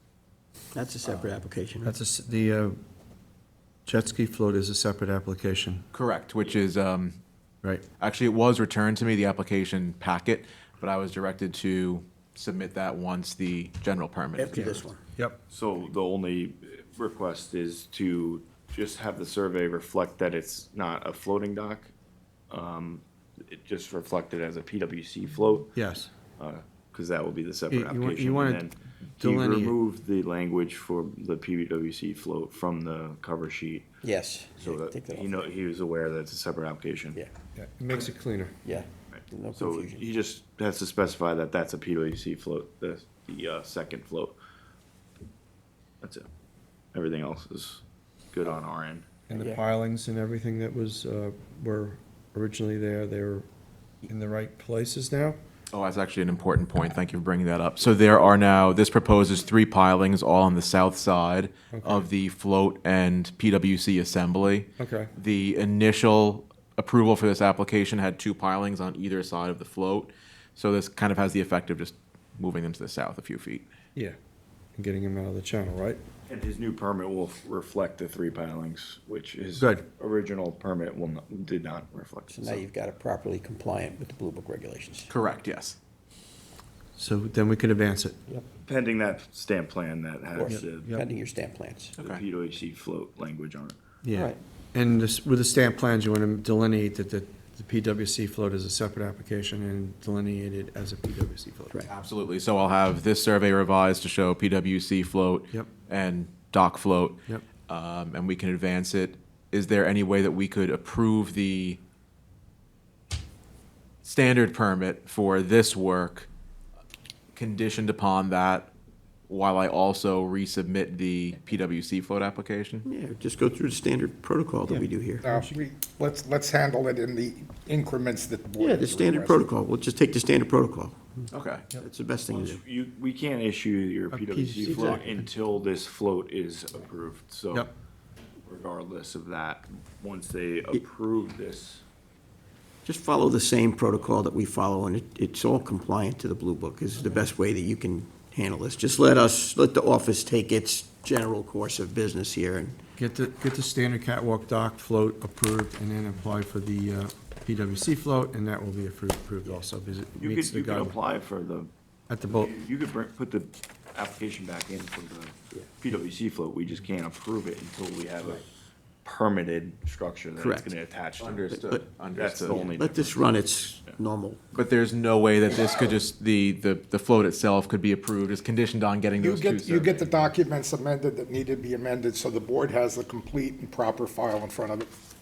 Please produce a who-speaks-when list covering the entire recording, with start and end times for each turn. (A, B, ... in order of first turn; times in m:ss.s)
0:00.7-0:01.9 A
0:01.1-0:02.8 B
0:03.8-0:05.9 B
0:05.9-0:07.2 C
0:08.0-0:14.9 C
0:14.4-0:15.0 A
0:14.5-0:15.4 B
0:15.5-0:21.9 D
0:22.5-0:25.8 D
0:25.8-0:26.1 B
0:26.4-0:33.9 D
0:27.7-0:28.7 B
0:29.2-0:29.8 B
0:34.0-0:35.5 A
0:34.6-0:37.2 D
0:37.6-0:38.6 B
0:38.6-0:40.1 A
0:39.1-0:44.4 D
0:46.0-0:46.3 D
0:46.9-0:49.1 D
0:49.3-0:53.5 B
0:49.4-0:49.6 A
0:54.1-0:55.4 B
0:55.7-1:13.7 C
1:01.7-1:02.1 B
1:04.8-1:05.1 B
1:14.8-1:16.0 B
1:16.3-1:22.7 D
1:19.6-1:19.8 B
1:22.3-1:25.1 A
1:25.1-1:25.8 C
1:27.0-1:28.2 B
1:28.6-1:31.0 D
1:30.4-1:31.9 A
1:30.4-1:31.1 B
1:32.0-1:33.8 D
1:32.0-1:32.2 C
1:34.0-1:41.9 B
1:34.1-1:34.4 A
1:41.9-1:51.8 C
1:54.0-1:56.3 C
1:57.3-1:58.7 C
1:59.3-2:02.8 C
2:02.8-2:05.3 A
2:04.7-2:05.6 B
2:05.2-2:09.5 E
2:08.6-2:11.3 A
2:11.3-2:11.7 C
2:11.8-2:12.6 A
2:12.3-2:17.7 D
2:14.1-2:15.3 B
2:18.4-2:21.8 D
2:22.8-2:32.8 A
2:33.0-2:41.0 B
2:40.2-2:41.7 D
2:42.1-2:42.5 B
2:42.2-2:48.5 D
2:49.0-2:51.5 D
2:50.4-2:50.7 A
2:51.2-2:52.6 C
2:51.5-2:51.8 A
2:52.1-2:54.0 D
2:52.4-2:54.4 A
2:54.5-3:00.3 C
2:59.2-3:04.9 E